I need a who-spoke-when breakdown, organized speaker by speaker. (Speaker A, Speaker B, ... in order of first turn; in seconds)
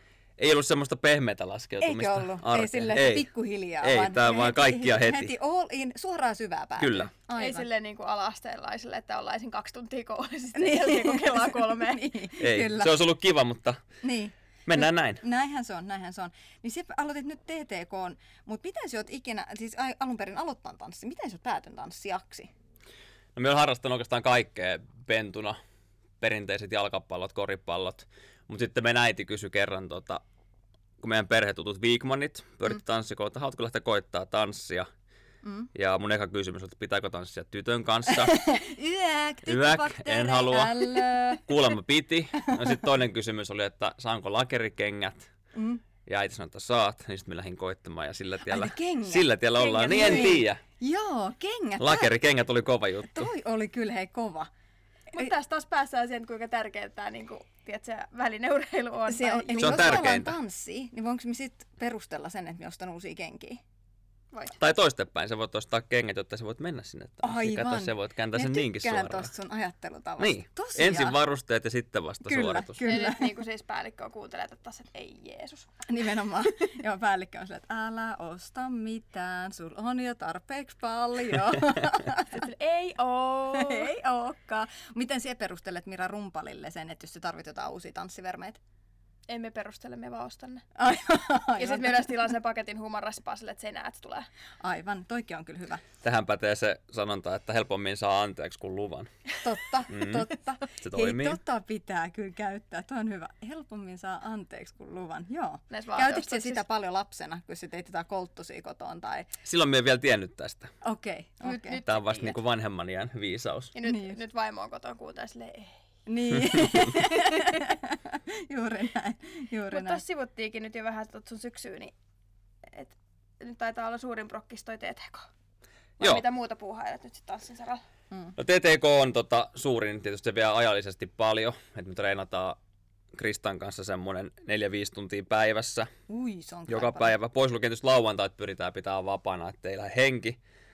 Speaker A: 0.4-3.3, 3.8-5.3, 6.8-7.1, 12.4-13.8, 14.7-15.2, 23.3-25.6, 26.2-30.2, 31.0-34.9, 35.7-38.5, 39.5-45.3, 46.0-50.6, 51.8-53.3, 59.6-60.4, 64.6-69.3, 70.2-72.8, 96.0-99.1, 99.9-100.3, 100.8-101.4, 109.4-110.7, 111.8-113.7, 126.0-126.2, 128.4-132.6, 133.1-135.9, 136.7-140.4
Speaker B: 1.8-7.7, 10.6-13.0, 14.0-22.5, 35.4-35.7, 38.3-41.5, 45.5-45.8, 48.4-52.1, 53.1-54.5, 59.1-63.6, 67.2-71.2, 72.2-73.3, 75.8-82.4, 83.5-88.6, 90.8-92.2, 94.6-95.8, 99.4-109.3, 110.8-111.8, 113.8-114.2, 116.0-120.0, 136.1-137.1
Speaker C: 7.3-12.2, 49.6-50.4, 55.1-60.1, 72.8-75.7, 82.3-83.9, 89.3-90.6, 91.6-94.3, 105.7-106.6, 111.4-112.4, 113.7-115.8, 119.7-121.9, 122.6-125.3, 126.0-127.8